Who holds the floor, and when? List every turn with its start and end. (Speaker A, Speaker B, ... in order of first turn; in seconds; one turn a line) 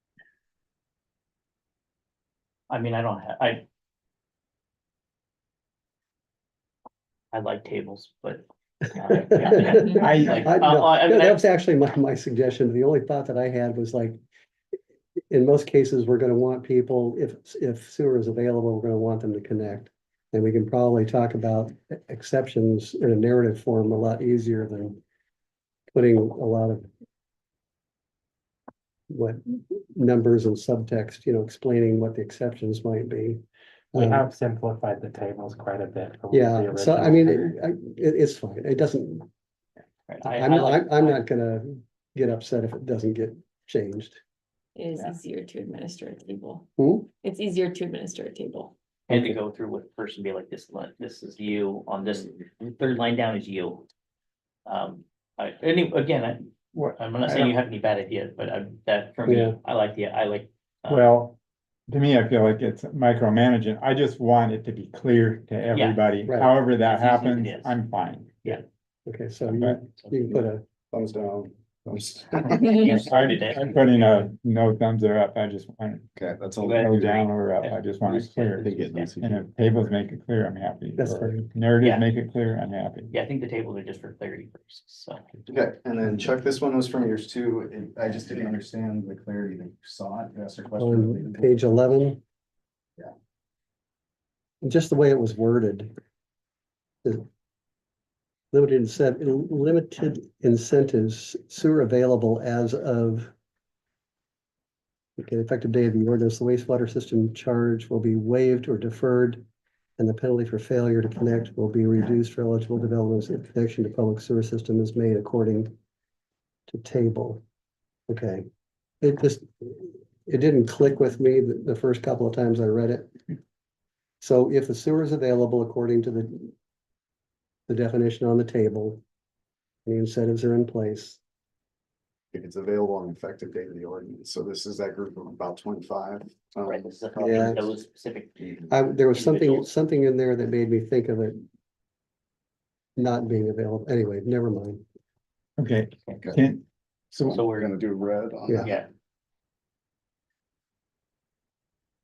Speaker A: 2.7-3.6
Speaker A: 7.3-8.4
Speaker A: 8.9-11.4
Speaker B: 9.1-14.2
Speaker C: 10.0-10.5
Speaker B: 15.3-25.0
Speaker B: 25.9-26.9
Speaker B: 29.1-33.4
Speaker B: 33.9-34.3
Speaker D: 34.0-37.5
Speaker B: 36.3-39.3
Speaker A: 40.1-41.2
Speaker B: 40.2-44.2
Speaker E: 44.8-48.7
Speaker B: 46.8-47.1
Speaker A: 49.1-53.9
Speaker A: 54.7-61.1
Speaker C: 56.8-57.6
Speaker B: 59.3-59.6
Speaker C: 60.9-61.4
Speaker C: 61.9-68.3
Speaker A: 65.7-66.0
Speaker A: 66.8-67.8
Speaker B: 69.1-70.6
Speaker C: 69.5-69.8
Speaker F: 70.3-72.9
Speaker A: 72.6-74.3
Speaker C: 72.9-83.1
Speaker F: 76.2-77.1
Speaker A: 76.6-79.1
Speaker F: 78.6-79.4
Speaker B: 81.0-81.5
Speaker A: 81.8-82.1
Speaker A: 83.1-85.3
Speaker F: 85.5-91.5
Speaker B: 90.8-92.2
Speaker B: 94.6-95.9
Speaker B: 98.5-103.3
Speaker B: 105.2-109.4
Speaker B: 110.0-115.7
Speaker B: 116.7-117.4
Speaker B: 118.1-118.5
Speaker B: 119.0-123.1
Speaker B: 124.2-126.5
Speaker B: 127.7-129.0
Speaker B: 129.9-131.2
Speaker F: 132.3-137.5
Speaker A: 136.7-138.4
Speaker B: 137.2-137.6
Speaker B: 138.7-141.4
Speaker A: 139.1-139.7
Speaker B: 143.0-144.8
Speaker C: 145.6-147.4
Speaker A: 147.3-147.7
Speaker F: 147.3-148.8
Speaker B: 148.5-148.8
Speaker A: 148.6-148.9